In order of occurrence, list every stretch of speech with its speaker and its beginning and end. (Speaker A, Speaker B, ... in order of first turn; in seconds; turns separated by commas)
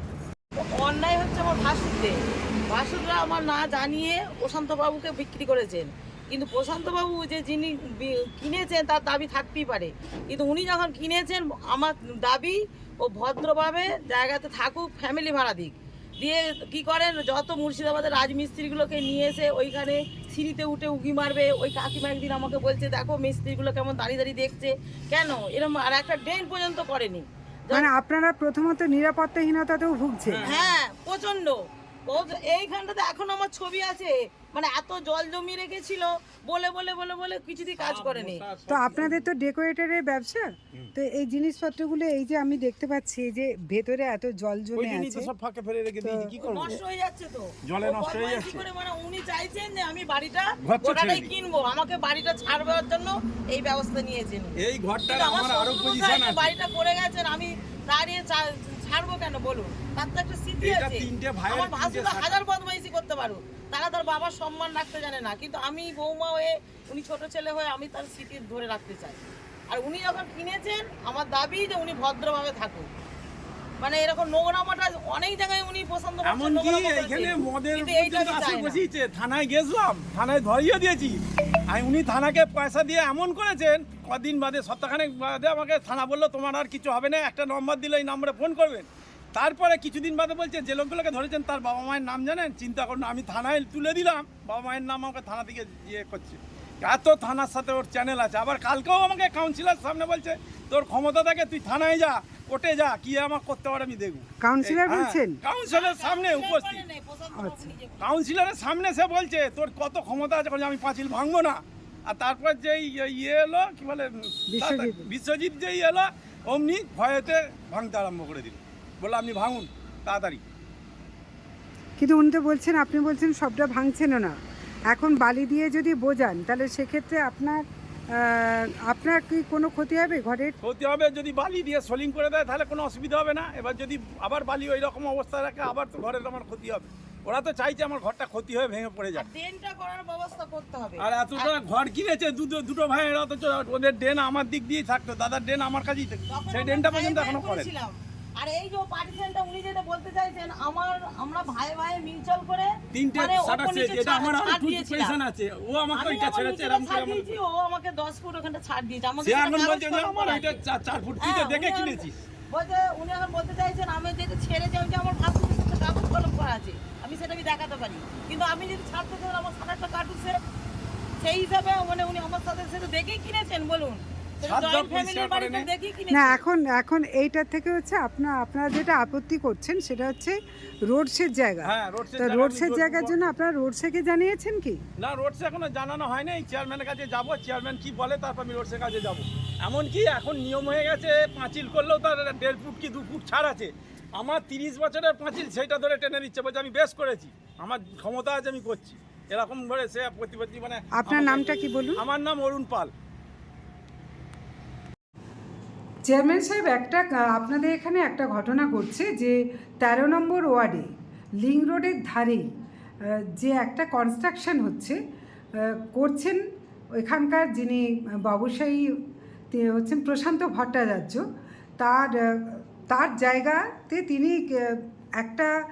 Speaker A: 0.6-27.9, Speaker B: 27.7-30.4, Speaker C: 30.3-30.8, Speaker A: 30.5-38.4, Speaker C: 37.8-39.2, Speaker B: 38.7-45.3, Speaker C: 44.8-46.8, Speaker B: 46.0-46.8, Speaker A: 46.4-72.9, Speaker C: 47.7-48.7, Speaker C: 50.6-51.3, Speaker C: 54.6-56.5, Speaker C: 60.6-62.4, Speaker A: 73.8-78.8, Speaker C: 76.3-106.8, Speaker B: 104.4-105.4, Speaker A: 105.7-108.0, Speaker B: 107.3-107.8, Speaker C: 108.0-120.4, Speaker B: 114.5-115.1, Speaker B: 122.0-124.4, Speaker B: 124.9-130.6, Speaker C: 130.6-139.3, Speaker A: 139.1-141.5, Speaker C: 141.0-147.7, Speaker A: 146.3-155.2, Speaker C: 152.9-157.4, Speaker A: 155.9-160.6, Speaker C: 159.2-162.2, Speaker A: 161.2-170.4, Speaker A: 171.2-176.4, Speaker C: 174.4-175.7, Speaker B: 176.1-184.8, Speaker C: 181.6-183.3, Speaker C: 185.0-202.9, Speaker B: 200.9-202.0, Speaker B: 206.1-210.9, Speaker B: 211.4-212.5, Speaker B: 213.1-215.0, Speaker B: 215.6-216.4, Speaker B: 216.9-219.0, Speaker B: 219.5-221.2, Speaker B: 221.8-225.5